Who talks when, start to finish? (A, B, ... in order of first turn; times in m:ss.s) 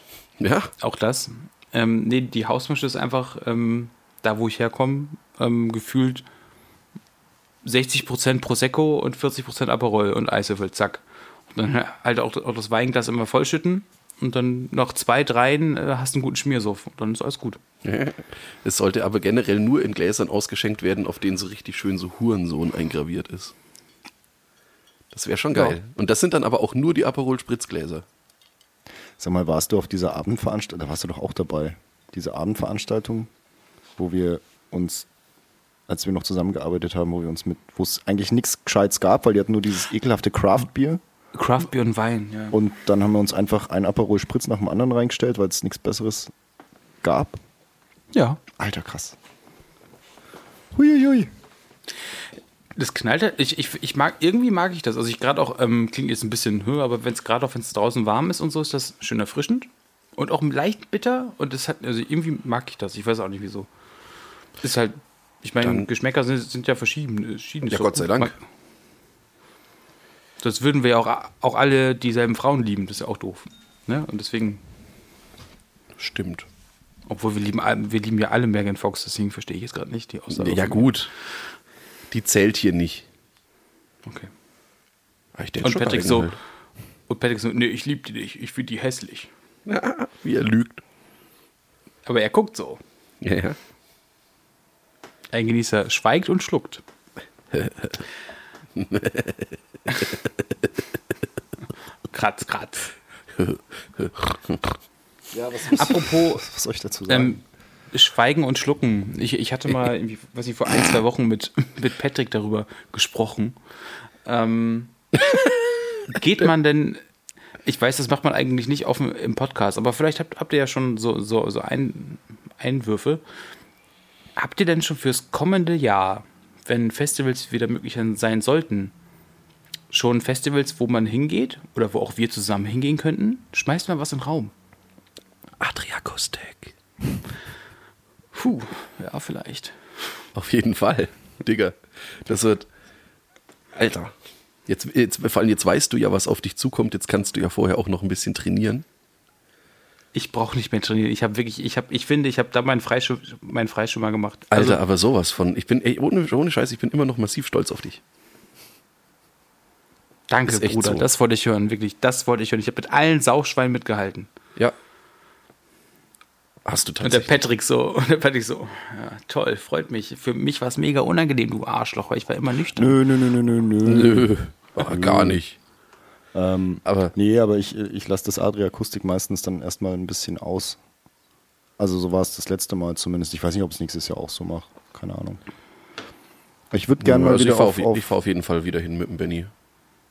0:00.4-0:00.7 A
0:00.8-0:06.2 B
0:07.6-0:17.6 B
0:17.8-0:23.5 A
0:25.1-0:28.0 A
0:29.2-0:33.3 C
0:34.0-0:35.1 C
0:35.9-0:41.0 C
0:41.3-0:42.6 B
0:42.5-0:46.3 C
0:47.0-0:47.4 C
0:48.1-0:48.4 B
0:48.6-0:49.2 C
0:50.7-0:51.3 C
0:52.8-1:03.7 B
1:04.6-1:08.4 B
1:05.6-1:05.9 A
1:07.7-1:08.3 A
1:10.4-1:14.6 B
1:16.0-1:16.5 A
1:17.1-1:20.9 B
1:20.3-1:21.1 A
1:22.1-1:23.0 A
1:24.0-1:24.3 B
1:25.3-1:26.3 A
1:25.6-1:26.3 B
1:27.1-1:29.3 B
1:29.6-1:30.8 A
1:32.0-1:32.8 B
1:33.2-1:33.6 A
1:35.3-1:36.8 B
1:37.5-1:38.0 A
1:38.8-1:40.6 A
1:42.1-1:42.9 B
1:43.4-1:44.8 A
1:45.3-1:47.4 C
1:45.7-1:46.4 B
1:47.1-1:47.4 B
1:47.9-1:53.6 B
1:54.2-1:54.9 B
1:55.3-1:56.0 A
1:56.1-1:57.0 B
1:57.6-2:03.2 B
2:04.4-2:08.9 B
2:09.9-2:14.5 B
2:15.6-2:16.7 A
2:18.3-2:20.1 B
2:20.3-2:22.7 A
2:23.7-2:24.1 A
2:24.7-2:28.8 A
2:30.1-2:34.8 B
2:34.5-2:38.0 A
2:40.3-2:44.3 B
2:40.5-2:41.0 A
2:46.6-2:47.3 A
2:47.0-2:53.0 B
2:52.8-2:55.4 C
2:53.8-2:55.6 A
2:56.3-3:00.8 C
2:56.8-2:57.1 A
3:01.8-3:05.4 C
3:06.7-3:08.1 C
3:07.0-3:09.5 A